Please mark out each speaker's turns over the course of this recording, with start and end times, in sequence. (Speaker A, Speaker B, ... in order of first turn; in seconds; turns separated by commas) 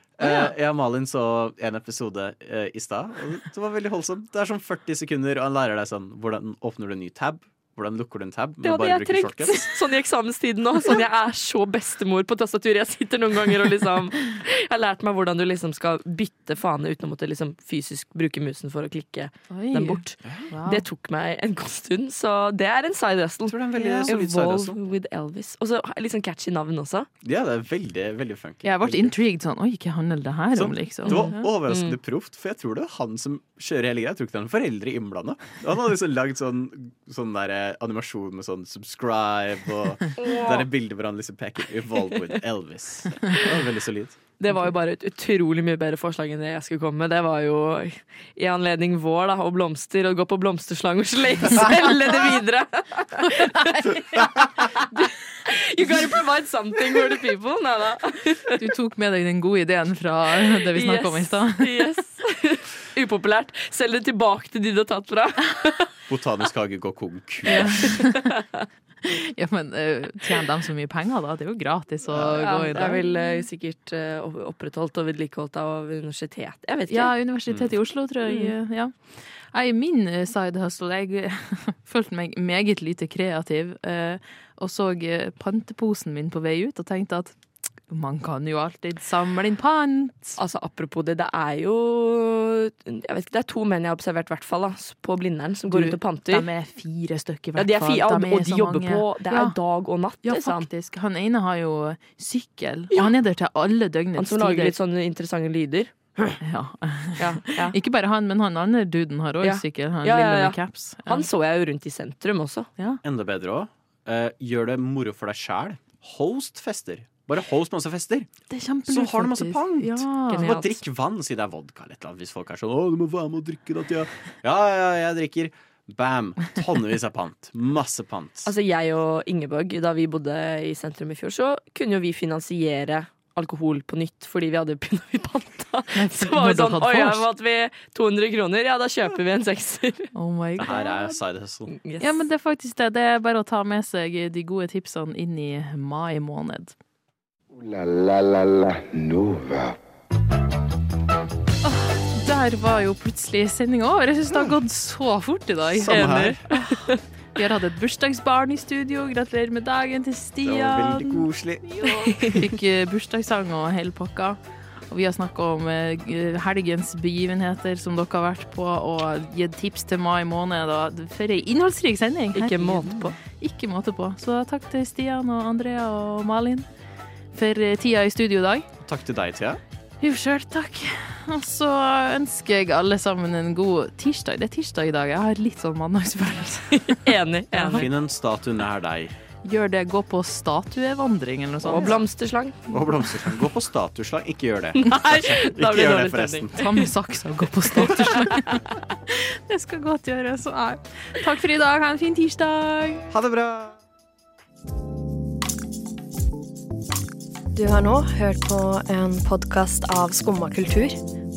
Speaker A: 0.2-9.7, Speaker B: 0.2-0.5, Speaker C: 8.6-27.1, Speaker B: 19.5-20.8, Speaker A: 20.2-20.5, Speaker A: 23.5-24.8, Speaker B: 23.8-24.1, Speaker A: 27.2-29.1, Speaker B: 28.6-31.5, Speaker A: 30.5-44.2, Speaker C: 31.0-32.0, Speaker C: 40.2-40.7, Speaker C: 44.4-58.6, Speaker B: 53.4-54.1, Speaker B: 58.5-61.8, Speaker C: 60.4-65.9, Speaker A: 66.1-67.9, Speaker B: 67.5-68.4, Speaker C: 67.5-68.3, Speaker B: 69.0-73.3, Speaker A: 72.1-72.8, Speaker C: 72.2-77.1, Speaker B: 76.9-87.3, Speaker C: 78.2-78.5, Speaker B: 87.9-90.4, Speaker C: 90.4-96.5, Speaker B: 95.7-99.5, Speaker C: 97.5-100.7, Speaker B: 100.2-104.7, Speaker C: 104.2-106.4, Speaker B: 106.4-111.3, Speaker C: 107.2-107.8, Speaker C: 109.4-112.7, Speaker A: 113.0-118.3, Speaker B: 118.5-120.6, Speaker A: 118.9-128.5, Speaker C: 120.3-120.7, Speaker C: 128.4-140.1, Speaker B: 135.9-137.2, Speaker B: 140.1-141.2, Speaker A: 140.6-141.7, Speaker C: 141.7-142.2, Speaker B: 142.0-146.7, Speaker D: 147.5-149.8, Speaker B: 151.6-156.8, Speaker A: 155.7-156.4, Speaker C: 155.9-157.0, Speaker B: 157.3-176.7, Speaker A: 160.4-161.7, Speaker C: 162.0-162.4, Speaker C: 172.3-173.2, Speaker A: 172.8-173.1, Speaker B: 177.3-178.7, Speaker A: 178.8-179.6, Speaker B: 180.0-187.8, Speaker C: 186.9-187.8, Speaker A: 187.7-189.1, Speaker B: 189.4-192.0, Speaker C: 191.6-192.6, Speaker A: 192.7-196.6, Speaker C: 194.8-196.8, Speaker B: 196.6-203.0, Speaker C: 197.8-198.4, Speaker A: 203.1-203.8, Speaker E: 207.5-211.0